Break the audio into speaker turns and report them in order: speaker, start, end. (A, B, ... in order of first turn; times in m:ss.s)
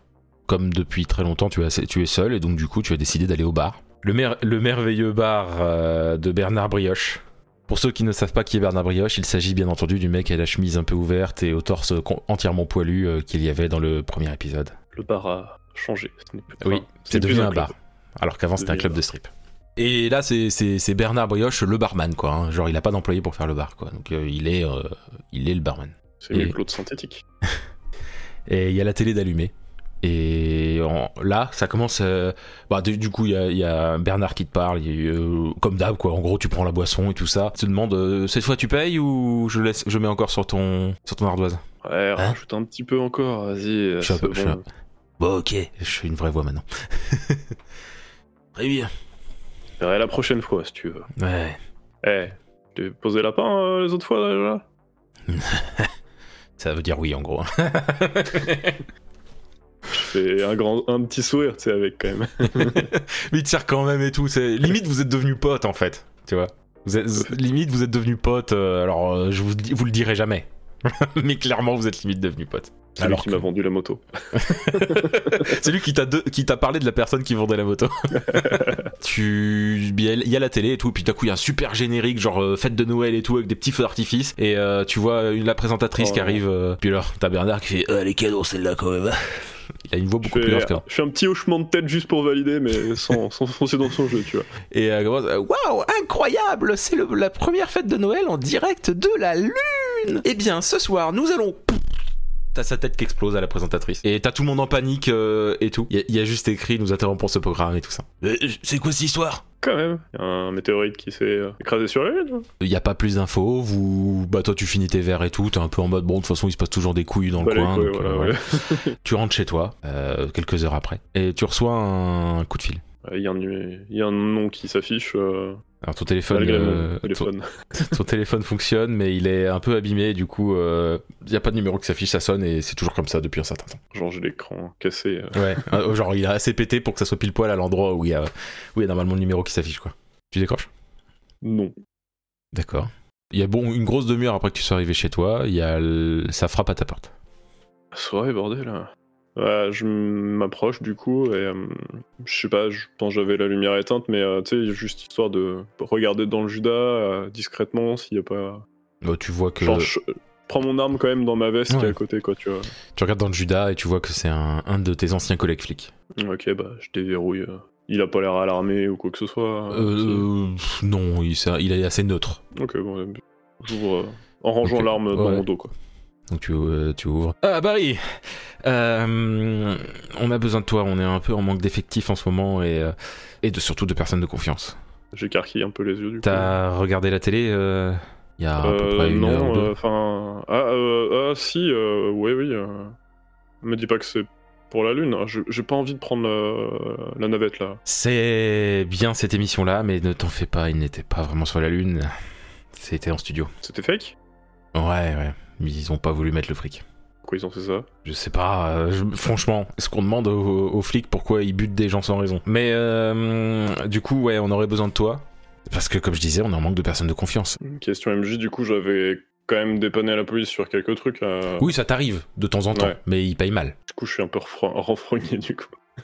0:00.5-0:14.7 A
0:14.9-0:17.7 B
0:16.6-0:26.6 A
0:18.6-0:19.0 B
0:26.2-0:27.2 B
0:28.5-0:41.6 A
0:41.8-0:44.6 B
0:44.0-0:44.6 A
0:45.2-0:47.6 A
0:48.5-0:48.9 A
0:49.8-0:51.1 B
0:51.2-0:51.6 A
0:52.0-0:54.6 B
0:55.3-0:55.9 A
0:56.6-0:58.8 A
0:59.9-1:02.9 B
1:02.4-1:13.5 A
1:13.0-1:15.5 B
1:14.3-1:30.8 A
1:18.2-1:18.9 B
1:26.0-1:26.4 B
1:30.2-1:34.5 B
1:34.7-1:42.0 A
1:42.5-1:49.4 A
1:49.6-1:52.5 B
1:52.6-1:58.4 A
1:57.4-1:59.0 B
1:59.0-2:02.8 A
2:03.0-2:05.6 B
2:05.8-2:13.8 A
2:06.3-2:07.9 B
2:13.9-2:15.8 B
2:15.3-2:20.7 A
2:21.4-2:21.7 B
2:22.5-2:27.1 A
2:27.9-2:38.6 B
2:39.0-2:39.9 A
2:39.6-2:42.7 B
2:41.7-2:42.0 A
2:42.9-2:45.9 A
2:46.2-2:50.2 B
2:49.7-2:52.4 A
2:52.5-2:55.7 B
2:54.6-2:55.4 A
2:56.3-3:04.8 A
3:05.1-3:06.5 B
3:06.2-3:09.7 A
3:08.6-3:12.9 B
3:13.6-3:17.8 B
3:17.8-3:22.1 A
3:22.7-3:23.5 A
3:23.6-3:24.2 B
3:24.7-3:26.8 A
3:27.2-3:27.9 B
3:28.0-3:37.6 A
3:37.6-3:41.7 B
3:41.6-3:43.8 A
3:42.7-3:43.0 B
3:43.9-3:45.7 B